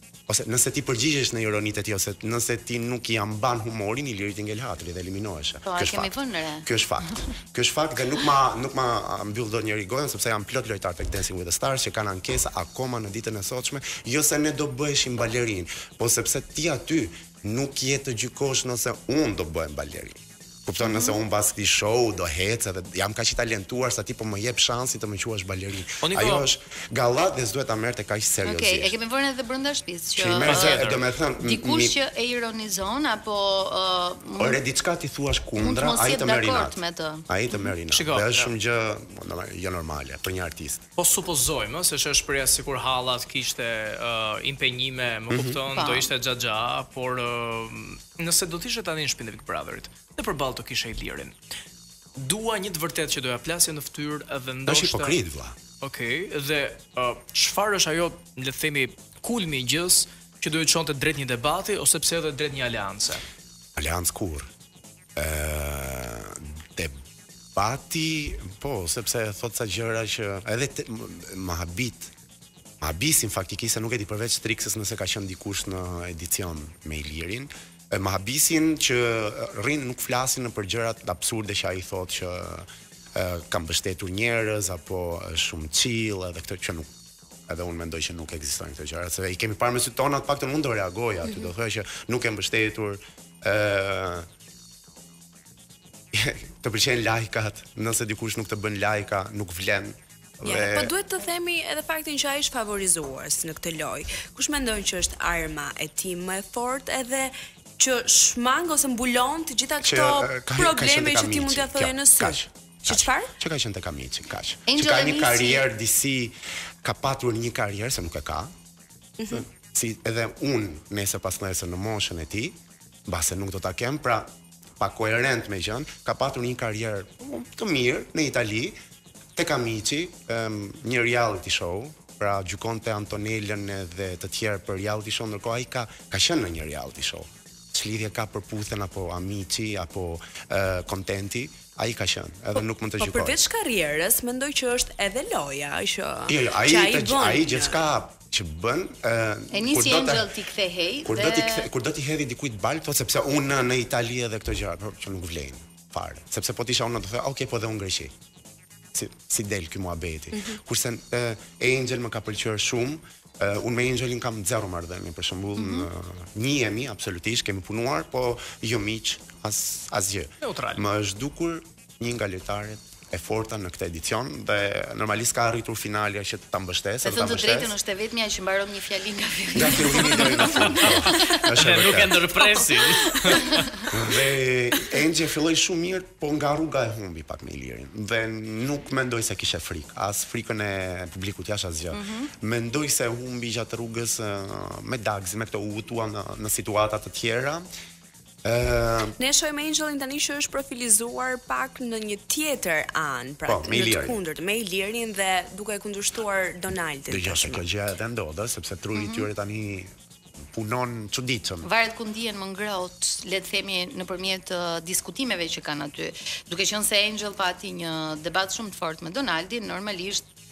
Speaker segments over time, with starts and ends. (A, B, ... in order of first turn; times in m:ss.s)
0:00.3-0:06.1 A
0:05.6-0:07.2 B
0:06.6-0:28.9 A
0:20.8-0:21.2 B
0:26.0-0:26.4 C
0:28.4-0:30.8 B
0:30.2-0:32.0 A
0:30.4-0:31.0 C
0:31.4-0:34.6 B
0:34.4-0:40.8 A
0:35.6-0:37.2 B
0:37.9-0:38.5 C
0:41.0-0:51.3 C
0:45.3-0:45.6 A
0:45.7-0:46.1 B
0:52.2-0:55.2 C
0:54.6-0:55.6 A
0:55.8-1:03.2 C
1:03.8-1:04.5 A
1:05.2-1:07.0 A
1:07.5-1:12.1 A
1:12.8-1:26.9 A
1:27.5-1:34.3 A
1:36.1-1:40.9 A
1:40.4-1:53.3 D
1:49.8-1:58.5 A
1:54.7-1:55.6 B
1:59.2-1:59.4 D
1:59.3-2:08.8 A
2:09.4-2:23.4 A
2:23.0-2:27.8 D
2:26.3-2:30.3 A
2:29.5-2:31.7 B
2:31.0-2:38.1 A
2:38.9-2:57.7 A
2:40.3-2:40.6 D
2:45.6-2:45.9 B
2:50.4-2:50.8 C
2:57.0-3:01.5 B
2:59.5-3:02.3 A
3:00.5-3:03.9 C
3:02.7-3:03.8 B
3:03.9-3:17.6 A
3:11.9-3:12.3 B
3:18.4-3:19.1 A
3:19.2-3:27.6 D
3:23.4-3:24.2 A
3:27.1-3:29.9 A
3:28.9-3:29.2 B
3:30.5-3:31.7 A
3:31.6-3:40.2 B